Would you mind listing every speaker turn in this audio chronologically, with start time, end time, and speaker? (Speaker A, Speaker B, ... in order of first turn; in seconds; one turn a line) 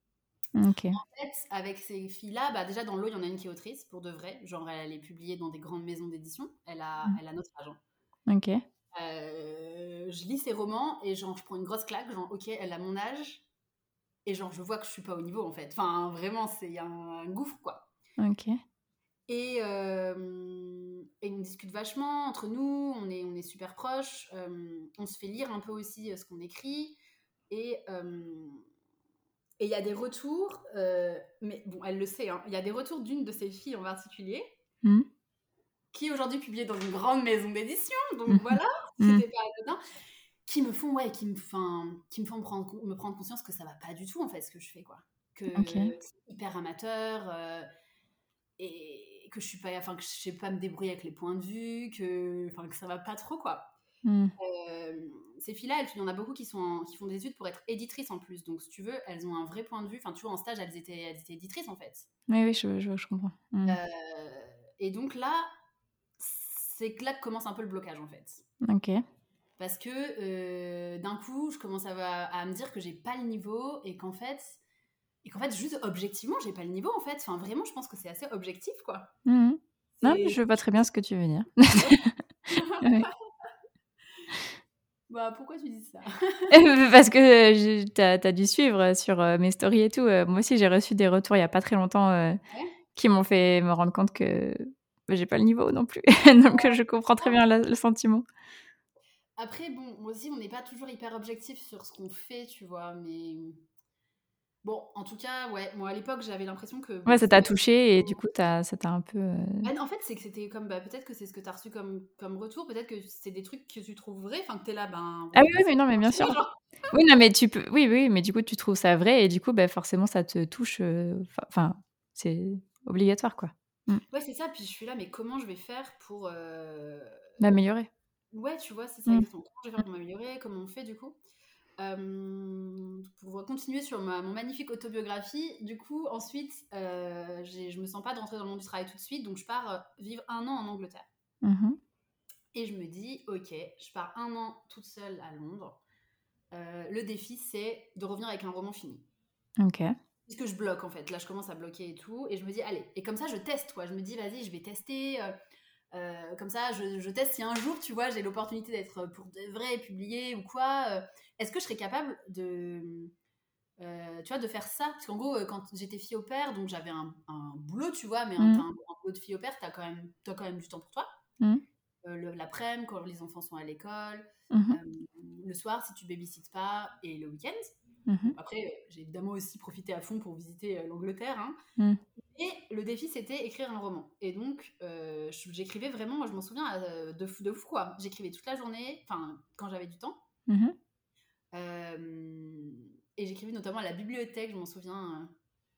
Speaker A: 0.5-1.0
Speaker B: 0.9-7.8
Speaker A: 8.3-8.6
Speaker B: 8.9-13.4
Speaker B: 14.2-17.9
Speaker A: 18.2-18.6
Speaker B: 19.3-27.0
Speaker B: 27.5-28.7
Speaker B: 29.6-34.6
Speaker B: 35.9-39.8
Speaker A: 38.3-39.2
Speaker B: 40.5-47.7
Speaker A: 45.5-45.9
Speaker B: 48.6-53.7
Speaker A: 54.0-54.3
Speaker B: 54.4-62.1
Speaker A: 62.3-63.8
Speaker B: 63.6-65.5
Speaker B: 66.2-68.4
Speaker A: 68.6-69.0
Speaker B: 69.6-74.6
Speaker B: 75.2-79.1
Speaker A: 79.2-83.1
Speaker B: 80.0-80.4
Speaker B: 82.5-83.5
Speaker B: 85.1-86.5
Speaker A: 86.5-92.4
Speaker A: 93.0-98.2
Speaker B: 96.5-97.4
Speaker B: 99.4-103.6
Speaker B: 104.6-108.2
Speaker A: 107.1-109.7
Speaker B: 109.6-116.6
Speaker A: 115.3-116.4
Speaker A: 116.9-124.0
Speaker B: 124.1-127.6
Speaker A: 127.4-127.9
Speaker B: 128.3-131.2
Speaker B: 131.8-141.1
Speaker A: 141.4-141.8
Speaker B: 142.5-145.8
Speaker B: 146.5-149.1
Speaker A: 149.6-149.9
Speaker B: 150.3-155.3
Speaker B: 155.9-163.1
Speaker B: 163.8-171.1
Speaker A: 168.4-168.6
Speaker B: 172.0-177.6
Speaker A: 174.5-174.8
Speaker A: 178.1-178.4
Speaker B: 178.2-181.6
Speaker B: 182.3-190.2
Speaker A: 190.5-190.7
Speaker B: 191.5-195.3